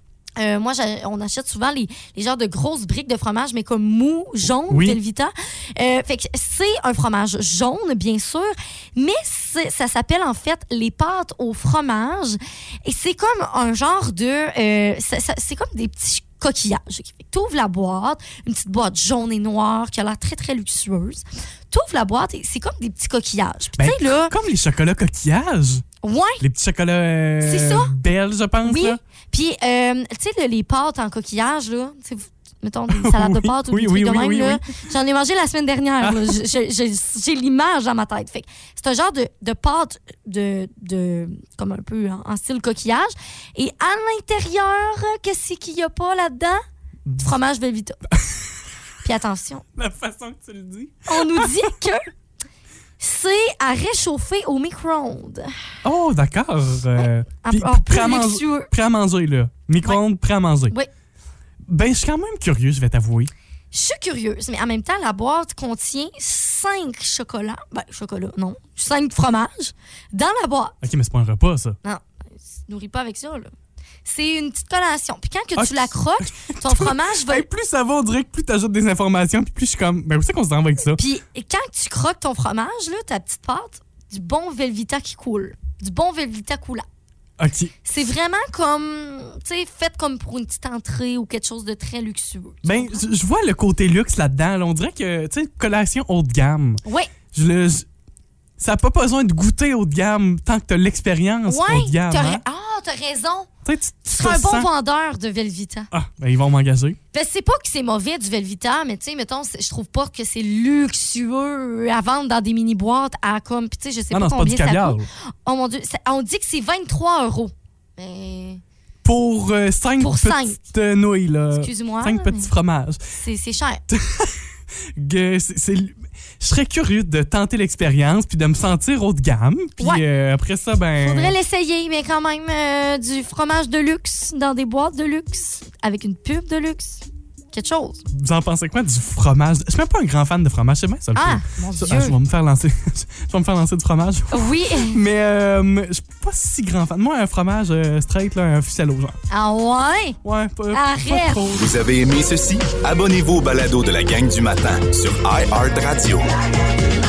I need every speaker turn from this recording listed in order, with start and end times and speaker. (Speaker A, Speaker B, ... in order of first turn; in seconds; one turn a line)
Speaker A: 0.4-24.3
Speaker B: 4.7-5.0
Speaker B: 23.8-29.0
Speaker A: 26.0-26.4
Speaker A: 27.4-27.9
Speaker A: 28.6-46.6
Speaker B: 32.9-34.6
Speaker B: 36.0-36.4
Speaker A: 47.2-48.0
Speaker A: 49.0-49.6
Speaker B: 49.8-51.7
Speaker A: 51.1-52.1
Speaker A: 53.0-55.5
Speaker B: 55.8-60.7
Speaker A: 57.4-58.7
Speaker B: 61.7-63.3
Speaker A: 63.7-70.8
Speaker B: 70.8-71.8
Speaker A: 71.8-73.5
Speaker A: 74.0-77.5
Speaker B: 75.6-81.0
Speaker A: 81.0-86.8
Speaker B: 87.4-87.7
Speaker A: 87.8-93.0
Speaker B: 92.6-97.8
Speaker A: 96.8-97.1
Speaker B: 98.6-102.4
Speaker A: 101.5-103.5
Speaker B: 103.6-104.7
Speaker A: 104.1-105.9
Speaker B: 105.9-107.0
Speaker A: 107.1-118.6
Speaker B: 114.1-115.1
Speaker B: 119.0-123.0
Speaker A: 120.0-120.6
Speaker A: 121.6-122.5
Speaker A: 123.2-123.8
Speaker B: 123.9-124.4
Speaker B: 125.0-131.3
Speaker A: 131.0-138.0
Speaker B: 138.1-149.2
Speaker A: 141.1-142.1
Speaker A: 144.3-145.0
Speaker A: 149.3-150.2
Speaker B: 150.2-151.7
Speaker A: 150.7-151.5
Speaker C: 151.5-156.3